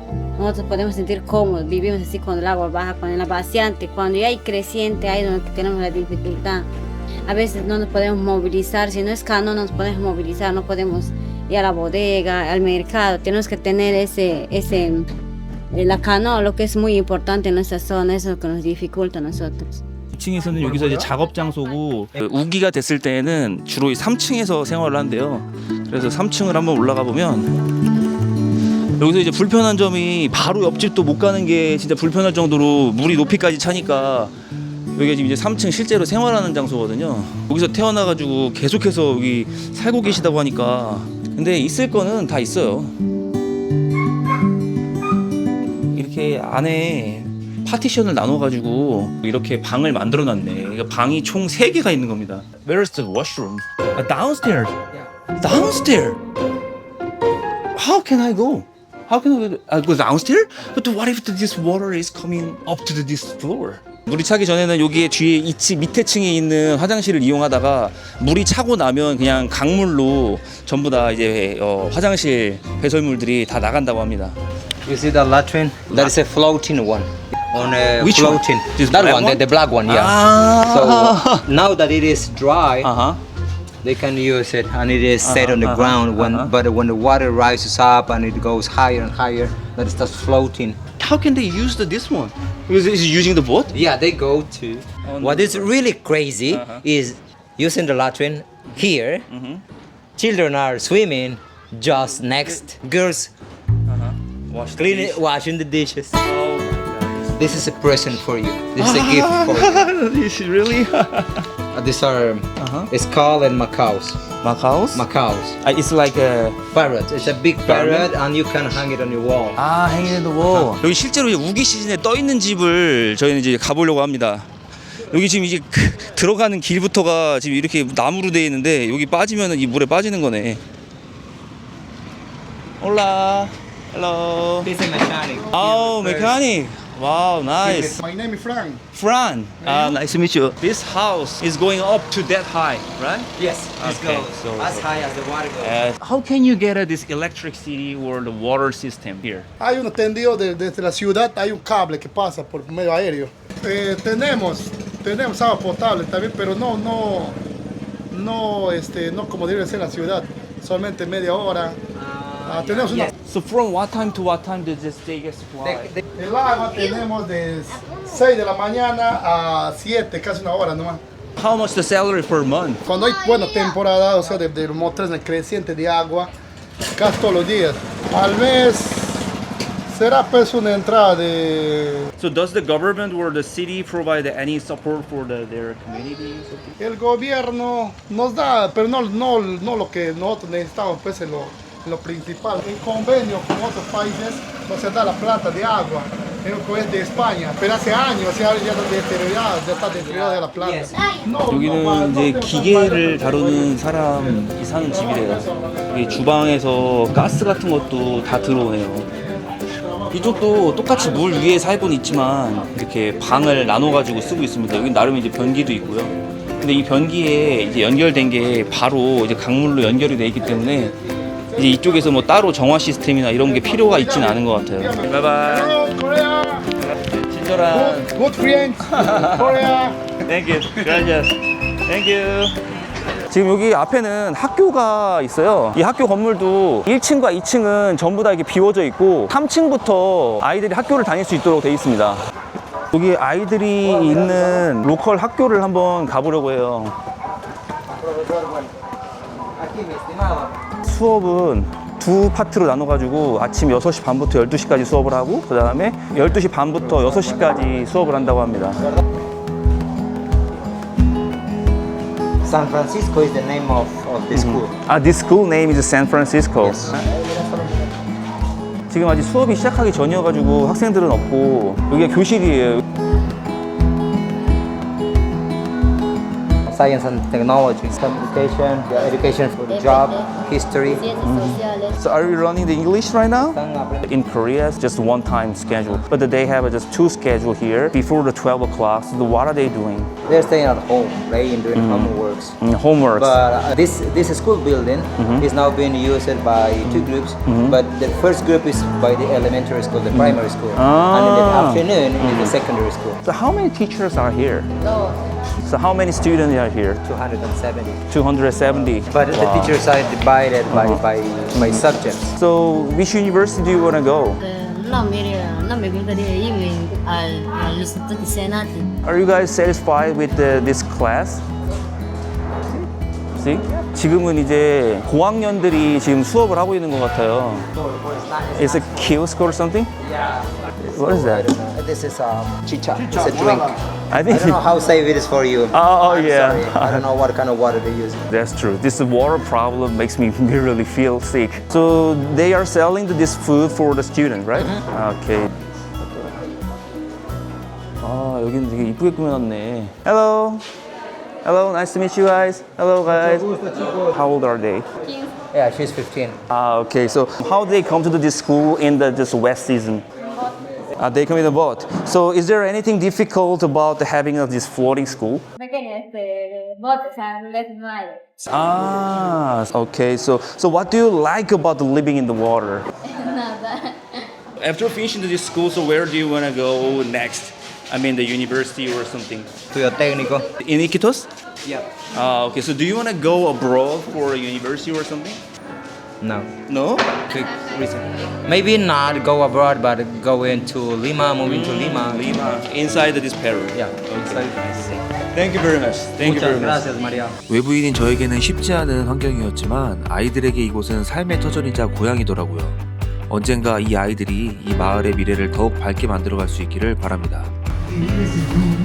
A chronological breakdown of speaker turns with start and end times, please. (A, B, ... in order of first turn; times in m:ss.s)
0:00.4-0:06.7 A
0:07.3-0:15.1 A
0:15.7-0:19.8 A
0:20.1-0:27.5 B
0:29.0-0:34.3 B
0:34.9-0:43.0 B
0:45.9-0:54.8 B
0:55.4-0:56.2 B
0:57.7-1:14.4 B
1:14.8-1:22.9 C
1:18.0-1:21.4 B
1:22.8-1:23.2 B
1:23.8-1:30.8 C
1:25.2-1:26.5 B
1:31.0-1:33.7 B
1:33.7-1:39.2 C
1:35.0-1:35.9 B
1:36.5-1:36.8 B
1:38.7-1:39.6 B
1:40.2-1:43.3 C
1:41.9-1:42.7 B
1:43.9-1:45.2 B
1:44.8-1:46.2 C
1:46.2-1:47.7 B
1:47.4-1:49.8 C
1:48.8-1:51.4 B
1:51.7-1:54.2 C
1:52.6-1:52.9 B
1:54.4-1:55.1 B
1:54.9-1:55.6 C
1:55.6-1:56.6 B
1:56.7-1:59.6 C
1:57.6-1:58.1 B
1:59.5-2:04.5 B
2:00.5-2:00.8 C
2:05.1-2:10.6 B
2:12.8-2:14.7 B
2:14.6-2:16.2 C
2:15.5-2:18.0 B
2:17.6-2:18.8 D
2:18.9-2:24.9 B
2:19.6-2:20.0 D
2:23.4-2:25.8 C
2:25.6-2:29.5 B
2:29.6-2:37.4 D
2:38.1-2:41.8 D
2:41.9-2:43.1 C
2:42.4-2:43.1 D
2:43.2-2:46.0 B
2:46.1-2:51.0 D
2:51.4-2:52.8 B
2:52.8-2:56.3 D
2:57.0-2:59.3 D
2:59.9-3:02.1 D
3:02.2-3:06.8 B
3:06.8-3:23.6 D
3:19.8-3:21.0 C
3:21.5-3:29.1 B
3:25.1-3:26.0 D
3:30.1-3:41.0 B
3:41.6-3:45.8 B
3:41.6-3:41.8 D
3:43.4-3:46.7 D
3:46.8-3:48.1 B
3:47.6-3:50.1 D
3:48.9-3:49.6 B
3:50.2-3:52.6 B
3:53.3-4:02.2 B
4:02.9-4:07.0 B
4:03.8-4:04.7 C
4:07.9-4:08.7 C
4:09.6-4:10.5 C
4:10.8-4:18.8 B
4:16.9-4:17.3 C
4:22.4-4:24.7 C
4:24.3-4:27.0 B
4:26.6-4:27.8 C
4:28.9-4:32.8 B
4:36.6-4:41.1 C
4:41.1-4:50.1 B
4:41.1-4:41.4 E
4:43.5-4:44.1 C
4:45.7-4:46.0 C
4:50.2-4:52.5 C
4:51.7-4:53.4 B
4:53.2-5:03.2 C
4:55.2-4:55.5 B
4:56.8-4:57.8 B
5:00.1-5:02.6 B
5:03.2-5:04.7 B
5:05.6-5:07.0 B
5:07.0-5:08.0 C
5:08.1-5:09.8 B
5:09.0-5:12.3 C
5:10.7-5:14.4 B
5:14.4-5:18.8 E
5:19.0-5:21.4 B
5:23.3-5:27.7 B
5:27.8-5:29.2 C
5:28.5-5:29.9 B
5:30.0-5:38.2 C
5:30.8-5:31.5 B
5:33.1-5:33.7 D
5:34.1-5:34.6 B
5:35.7-5:37.0 B
5:38.3-5:46.4 B
5:44.5-5:44.8 C
5:48.0-5:50.6 B
5:51.4-5:54.8 B
5:53.2-5:53.7 C
5:55.5-5:56.4 C
5:56.5-6:00.0 B
6:01.0-6:05.4 B
6:05.6-6:08.2 A
6:08.4-6:12.9 B
6:13.3-6:14.0 A
6:14.6-6:19.5 B
6:19.7-6:20.4 C
6:20.6-6:21.3 B
6:22.1-6:25.4 B
6:26.2-6:26.5 C
6:26.7-6:27.1 B
6:27.2-6:32.6 C
6:31.4-6:36.9 B
6:33.7-6:35.0 C
6:36.2-6:37.4 C
6:37.5-6:47.5 F